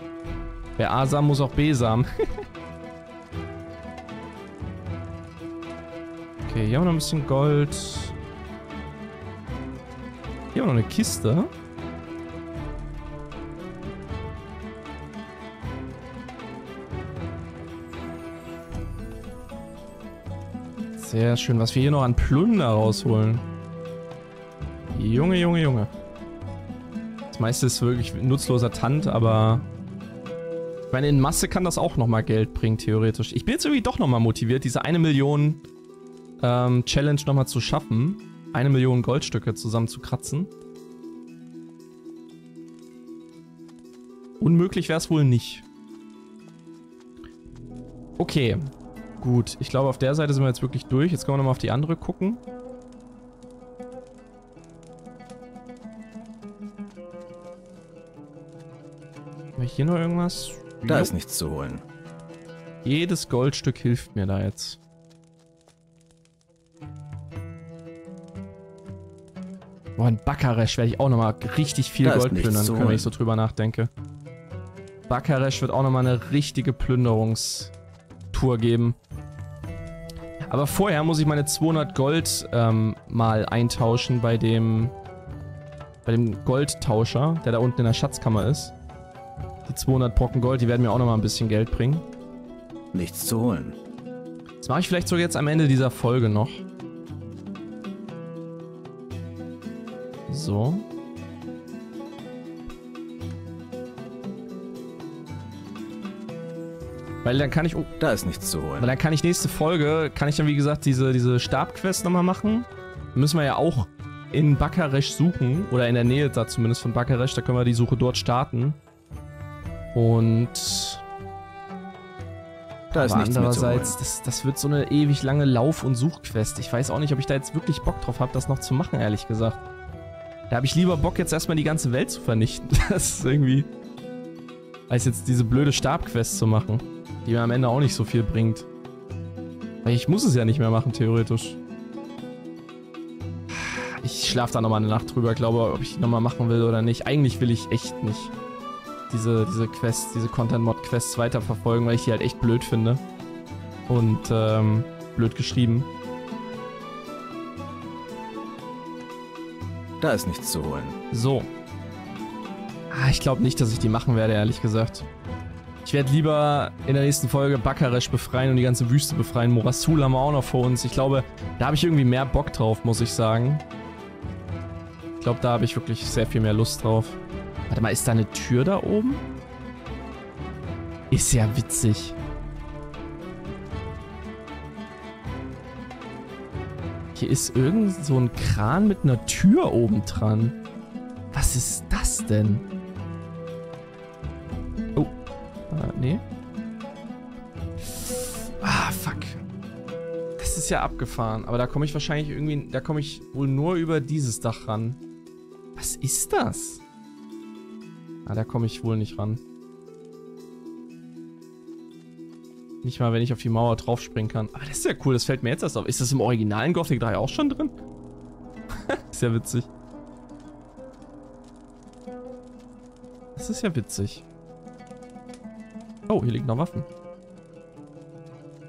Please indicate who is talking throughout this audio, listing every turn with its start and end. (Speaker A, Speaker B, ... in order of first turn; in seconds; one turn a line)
Speaker A: 0.8-2.1
Speaker A: 6.5-8.1
Speaker A: 10.5-11.5
Speaker A: 21.0-23.4
Speaker A: 24.9-25.9
Speaker A: 27.3-29.6
Speaker A: 30.9-35.6
Speaker A: 36.4-40.5
Speaker A: 44.4-45.6
Speaker A: 48.2-52.4
Speaker A: 59.6-61.1
Speaker B: 60.9-61.8
Speaker A: 62.8-64.8
Speaker A: 70.0-73.9
Speaker B: 72.0-73.1
Speaker A: 75.1-77.7
Speaker A: 78.3-79.0
Speaker A: 80.5-84.9
Speaker A: 86.0-88.7
Speaker A: 89.7-92.0
Speaker B: 92.9-93.8
Speaker A: 94.6-96.6
Speaker A: 100.3-100.8
Speaker A: 107.2-107.9
Speaker B: 108.0-108.9
Speaker A: 108.8-118.8
Speaker A: 120.0-121.0
Speaker A: 122.9-129.6
Speaker B: 122.9-124.0
Speaker A: 130.5-133.7
Speaker A: 134.9-138.7
Speaker A: 139.8-141.6
Speaker A: 143.5-148.3
Speaker A: 149.1-153.0
Speaker A: 153.9-155.9
Speaker B: 160.0-161.0
Speaker A: 161.1-161.5
Speaker A: 162.9-165.1
Speaker A: 165.8-173.6
Speaker A: 175.2-177.2
Speaker A: 177.7-179.2
Speaker A: 181.1-182.2
Speaker A: 187.1-190.6
Speaker A: 191.3-192.6
Speaker A: 195.7-196.2
Speaker A: 198.0-199.4
Speaker A: 200.4-205.0
Speaker A: 205.8-206.8
Speaker A: 208.3-209.4
Speaker A: 212.8-217.7
Speaker A: 218.9-219.7
Speaker A: 223.4-224.2
Speaker A: 226.1-226.9